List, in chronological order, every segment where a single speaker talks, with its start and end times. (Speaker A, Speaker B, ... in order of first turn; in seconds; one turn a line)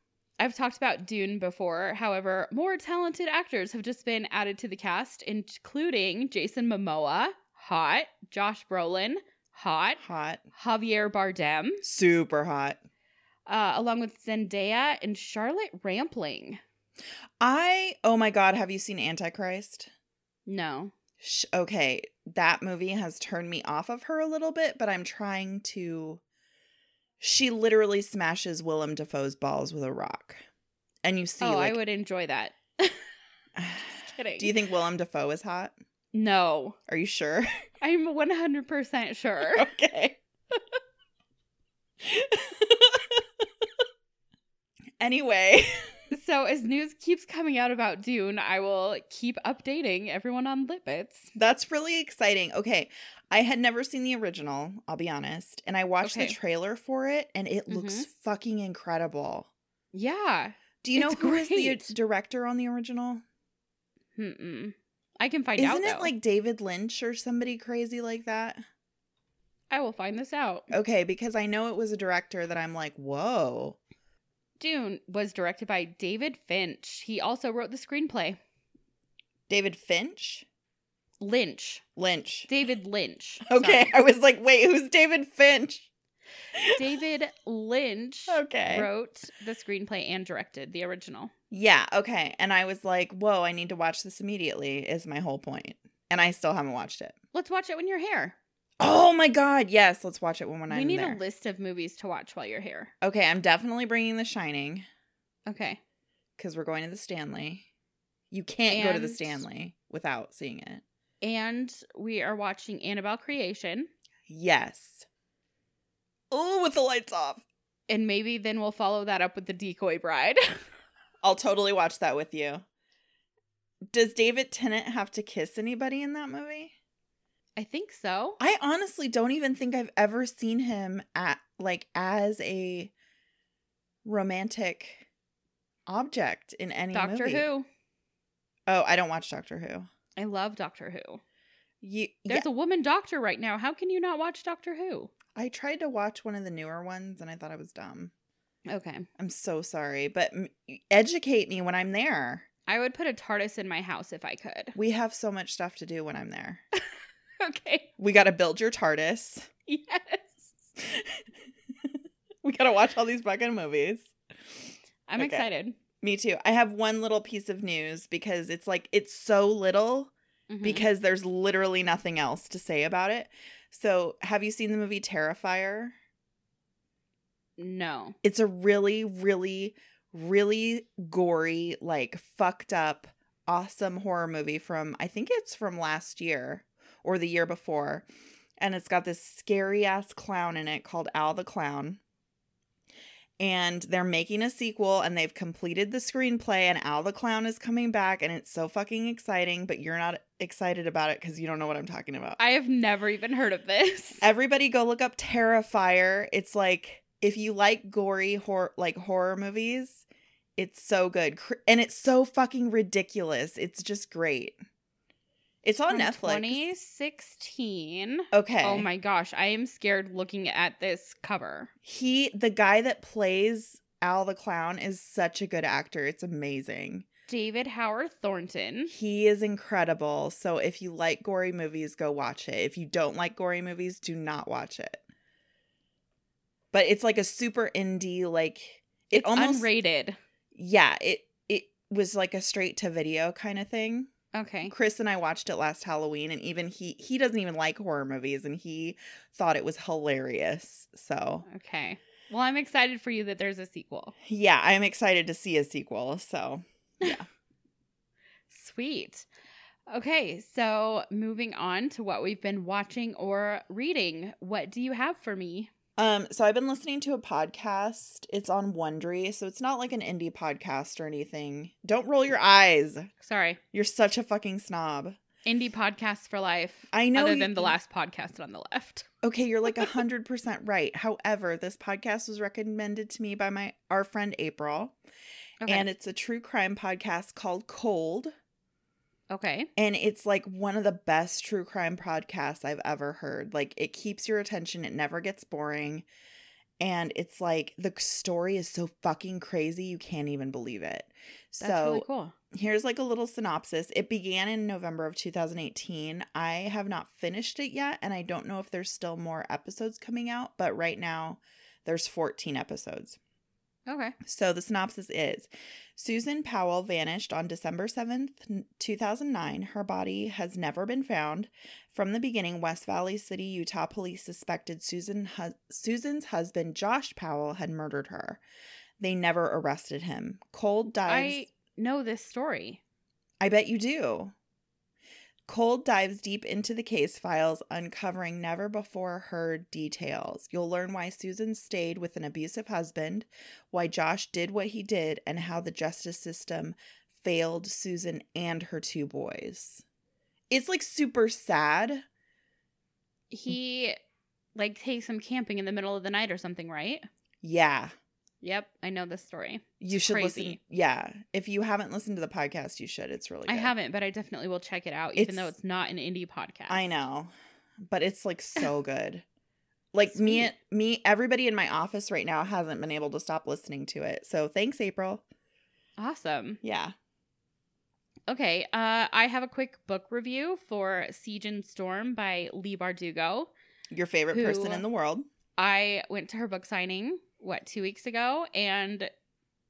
Speaker A: 0.4-10.0
Speaker B: 10.0-10.4
Speaker A: 10.5-11.8
Speaker B: 11.8-12.8
Speaker A: 13.5-16.6
Speaker B: 17.4-19.9
Speaker A: 20.4-20.9
Speaker B: 21.2-26.2
Speaker B: 27.2-30.4
Speaker B: 31.0-31.8
Speaker A: 31.4-33.0
Speaker B: 33.5-35.7
Speaker A: 33.9-34.5
Speaker A: 36.1-36.8
Speaker B: 36.9-37.5
Speaker A: 37.8-39.7
Speaker B: 39.5-40.2
Speaker B: 42.0-43.2
Speaker B: 45.0-45.9
Speaker A: 46.1-51.3
Speaker B: 51.3-59.5
Speaker A: 56.0-56.4
Speaker A: 57.7-58.1
Speaker A: 59.9-61.9
Speaker B: 60.8-63.2
Speaker A: 64.2-66.1
Speaker B: 65.6-68.6
Speaker A: 69.7-70.7
Speaker B: 70.7-73.8
Speaker A: 74.6-78.4
Speaker B: 79.5-80.5
Speaker A: 81.2-81.8
Speaker B: 82.0-82.5
Speaker A: 82.5-83.9
Speaker B: 83.5-85.9
Speaker B: 86.5-86.8
Speaker A: 86.7-91.3
Speaker B: 88.3-88.9
Speaker B: 91.5-97.2
Speaker A: 97.3-98.3
Speaker B: 98.8-101.2
Speaker A: 100.7-102.9
Speaker B: 103.0-104.8
Speaker A: 105.5-105.8
Speaker B: 106.4-107.7
Speaker B: 108.3-110.8
Speaker A: 108.7-109.4
Speaker A: 111.2-113.9
Speaker B: 114.3-115.0
Speaker B: 116.3-117.4
Speaker A: 117.9-120.6
Speaker B: 121.2-122.6
Speaker B: 123.9-126.7
Speaker A: 127.6-128.4
Speaker B: 128.4-132.9
Speaker B: 134.0-135.1
Speaker B: 135.9-137.4
Speaker A: 136.9-137.7
Speaker B: 138.7-139.9
Speaker A: 140.2-141.2
Speaker B: 141.8-142.4
Speaker A: 142.3-145.1
Speaker B: 145.3-148.1
Speaker A: 148.7-149.1
Speaker B: 149.2-152.4
Speaker A: 152.7-154.7
Speaker B: 154.7-156.6
Speaker A: 157.4-157.9
Speaker B: 158.0-159.5
Speaker A: 159.7-160.5
Speaker B: 160.8-161.2
Speaker B: 161.8-164.1
Speaker A: 165.1-165.8
Speaker B: 165.2-165.4
Speaker B: 166.0-170.1
Speaker A: 170.5-170.8
Speaker B: 170.6-175.9
Speaker A: 177.6-178.2
Speaker B: 178.2-188.1
Speaker B: 188.6-192.0
Speaker B: 193.4-202.4
Speaker A: 202.4-204.2
Speaker B: 204.2-210.0
Speaker B: 210.6-214.6
Speaker B: 215.6-216.7
Speaker A: 215.9-221.7
Speaker B: 218.3-218.9
Speaker B: 221.8-227.0
Speaker A: 227.3-228.9
Speaker B: 228.9-235.0
Speaker B: 236.7-239.7
Speaker A: 239.1-240.2
Speaker B: 240.5-244.1
Speaker A: 244.3-244.7
Speaker B: 244.7-251.4
Speaker A: 251.5-254.1
Speaker B: 254.2-257.2
Speaker A: 258.5-259.2
Speaker A: 259.9-265.7
Speaker B: 266.0-273.1
Speaker A: 273.2-273.6
Speaker B: 273.7-275.2
Speaker A: 275.4-279.1
Speaker B: 276.9-277.8
Speaker B: 279.2-284.9
Speaker A: 285.6-285.9
Speaker B: 285.7-288.3
Speaker A: 289.3-289.7
Speaker B: 289.8-296.0
Speaker B: 296.8-313.2
Speaker A: 301.6-302.3
Speaker A: 313.9-314.1
Speaker B: 314.2-328.4
Speaker B: 329.0-331.4
Speaker A: 331.0-332.8
Speaker B: 333.4-334.3
Speaker B: 335.5-349.8
Speaker B: 350.5-352.0
Speaker A: 353.3-354.0
Speaker A: 354.5-357.1
Speaker B: 357.4-357.9
Speaker A: 358.4-360.6
Speaker B: 359.8-363.7
Speaker A: 363.5-366.9
Speaker B: 365.1-365.5
Speaker B: 366.7-367.3
Speaker B: 367.8-369.2
Speaker B: 369.9-375.2
Speaker A: 370.1-370.5
Speaker A: 376.0-376.6
Speaker B: 376.6-376.9
Speaker A: 378.3-383.5
Speaker B: 383.9-385.2
Speaker A: 384.3-384.8
Speaker A: 385.6-389.1